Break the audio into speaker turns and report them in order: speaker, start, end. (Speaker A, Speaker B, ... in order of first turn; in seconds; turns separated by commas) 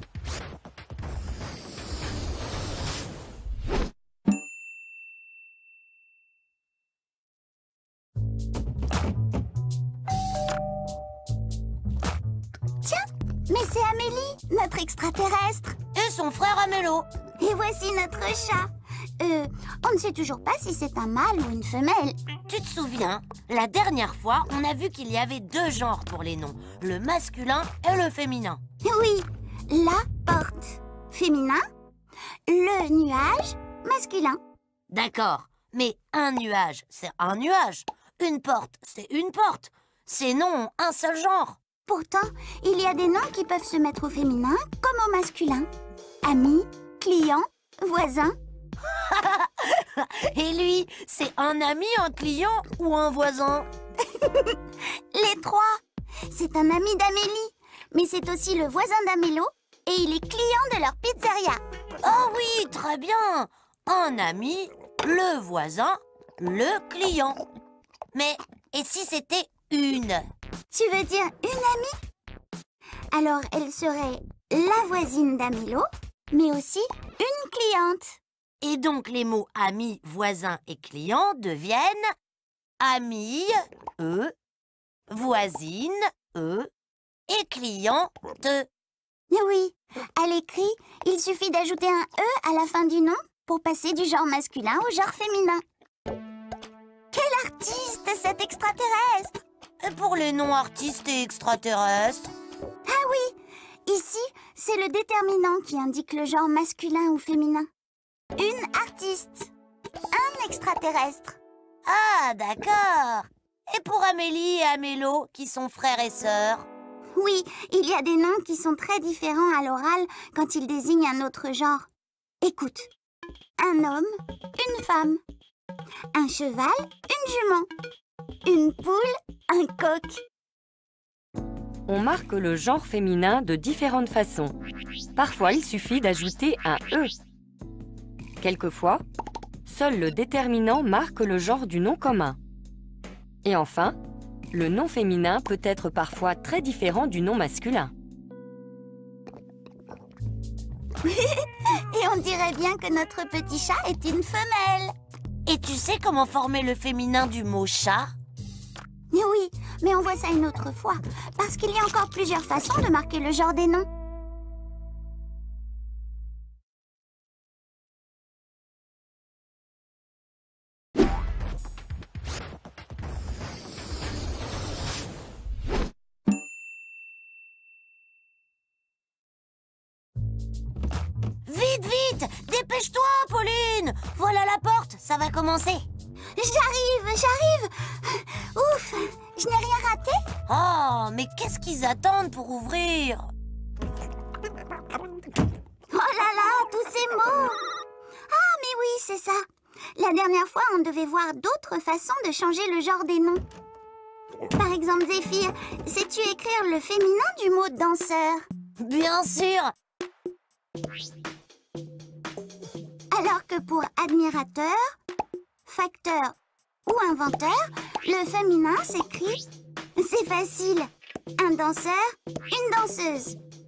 Speaker A: 12.8-15.8, Speaker B: 15.9-17.1, Speaker A: 17.4-18.7, Speaker A: 19.2-22.2, Speaker B: 22.5-28.6, Speaker A: 28.8-31.6, Speaker A: 32.5-34.4, Speaker B: 34.9-41.6, Speaker A: 41.9-45.7, Speaker A: 46.2-48.3, Speaker B: 48.9-53.7, Speaker A: 54.2-54.6, Speaker A: 55.1-55.7, Speaker A: 56.3-61.6, Speaker B: 62.0-67.4, Speaker B: 68.1-70.2, Speaker A: 70.7-71.9, Speaker A: 73.1-78.2, Speaker B: 78.6-82.0, Speaker B: 82.8-84.3, Speaker B: 85.1-86.7, Speaker B: 87.3-88.7, Speaker A: 89.3-95.6, Speaker A: 97.1-99.4, Speaker B: 99.8-102.3, Speaker A: 102.8-103.3, Speaker A: 103.9-107.7, Speaker A: 108.4-109.5, Speaker A: 110.1-111.4, Speaker B: 111.8-116.7, Speaker A: 117.2-121.8, Speaker A: 122.4-122.9, Speaker A: 123.6-125.2, Speaker A: 126.1-127.7, Speaker A: 128.4-130.2, Speaker C: 131.9-134.6, Speaker C: 135.2-137.1, Speaker C: 138.4-139.0, Speaker C: 139.7-142.4, Speaker C: 143.4-144.0, Speaker C: 144.5-147.9, Speaker A: 151.0-154.9, Speaker B: 155.4-158.1, Speaker A: 159.1-163.9, Speaker B: 181.5-185.8, Speaker A: 186.4-190.2, Speaker B: 190.5-193.2, Speaker A: 195.9-197.6, Speaker A: 198.3-199.4, Speaker A: 199.9-203.4, Speaker A: 204.5-208.4, Speaker B: 208.8-209.7, Speaker A: 213.1-214.8, Speaker A: 215.7-216.3, Speaker A: 216.9-219.4, Speaker A: 220.0-220.9, Speaker A: 221.4-223.4